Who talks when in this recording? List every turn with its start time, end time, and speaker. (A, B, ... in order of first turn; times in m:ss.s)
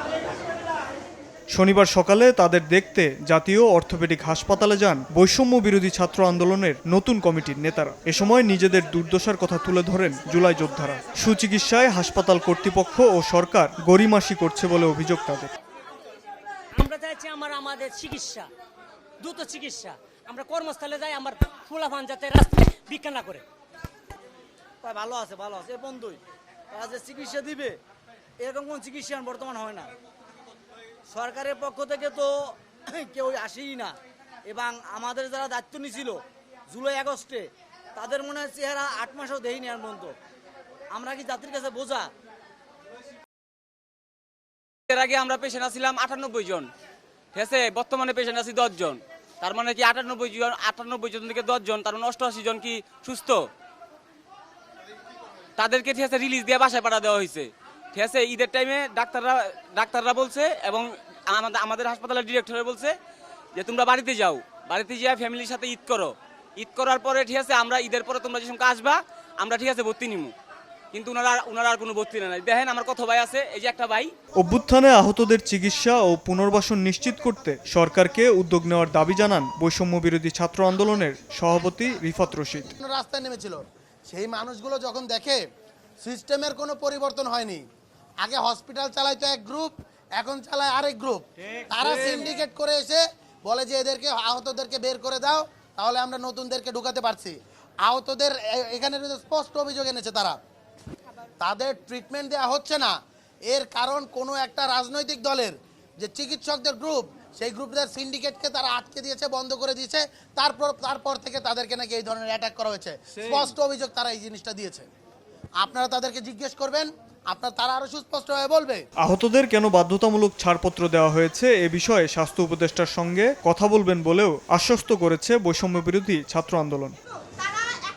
0:01.5-0:15.5 A
0:16.8-0:18.5 B
0:19.2-0:23.4 B
0:24.8-0:26.2 C
0:26.7-0:27.8 C
0:28.4-0:29.9 C
0:31.1-0:34.0 C
0:34.5-0:40.1 C
0:40.9-0:42.1 C
0:44.9-0:46.7 D
0:47.3-0:53.4 D
0:55.6-1:03.0 D
1:03.5-1:10.3 D
1:10.9-1:14.1 D
1:14.4-1:22.7 A
1:22.8-1:25.4 E
1:26.0-1:27.6 E
1:28.2-1:40.4 E
1:41.4-1:42.9 E
1:43.5-1:54.9 E
1:55.6-1:58.8 E
1:59.0-2:07.0 A